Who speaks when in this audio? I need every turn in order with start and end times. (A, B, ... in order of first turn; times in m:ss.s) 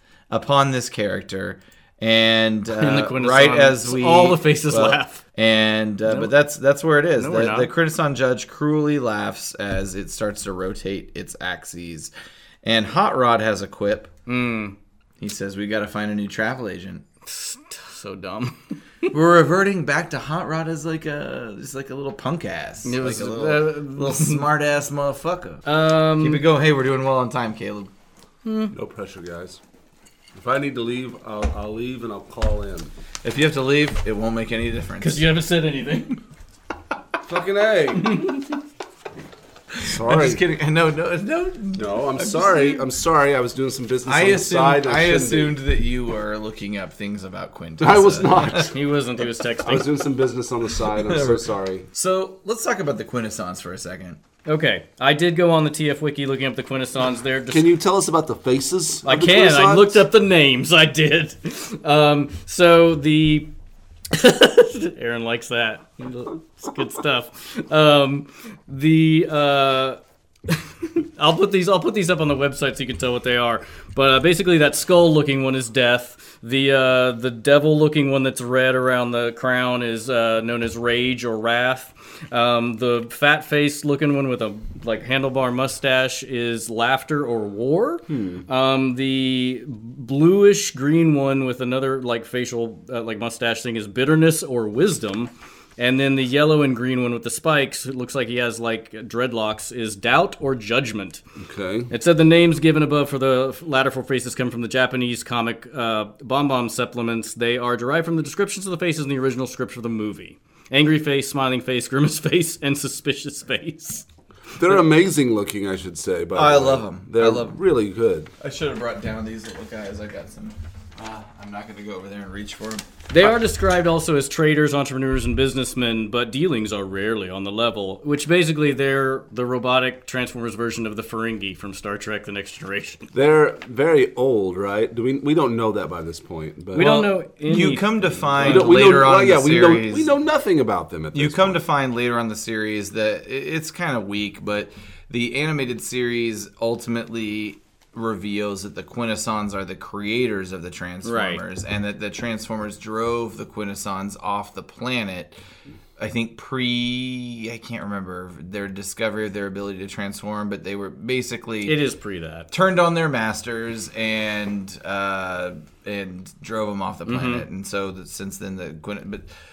0:00.3-0:12.1 A
0:02.8-0:05.2 B
0:06.1-0:06.3 B
0:07.2-0:07.7 B
0:12.6-0:14.1 A
0:14.3-0:14.8 B
0:15.2-0:17.0 A
0:17.3-0:19.1 B
0:19.1-0:27.9 A
0:22.8-0:24.4 B
0:25.7-0:26.4 B
0:28.4-0:28.7 B
0:28.7-0:29.6 C
0:30.4-0:32.9 C
0:33.2-0:35.3 A
0:35.0-0:36.2 B
0:37.2-0:38.2 C
0:38.0-0:38.6 B
0:39.7-0:42.8 A
0:39.8-0:40.4 C
0:41.8-0:45.6 C
0:44.0-0:48.7 A
0:47.8-0:48.8 C
0:48.7-0:50.0 B
0:49.6-0:51.9 C
0:50.9-0:54.2 A
0:54.5-0:57.7 B
0:57.5-1:00.0 C
0:59.0-1:03.5 B
1:04.1-1:41.2 B
1:28.1-1:28.5 C
1:41.4-1:41.9 C
1:41.9-1:54.0 B
1:54.6-1:58.3 C
1:56.4-1:57.6 A
1:58.4-2:03.4 A
2:03.1-2:13.1 B
2:13.1-2:17.1 C
2:16.7-2:18.9 B
2:16.8-2:20.1 A
2:18.4-2:21.6 C
2:21.1-2:35.4 A
2:31.0-2:31.4 B
2:36.0-2:41.8 A
2:41.6-2:42.5 B
2:42.5-2:49.3 A
2:47.1-2:47.4 B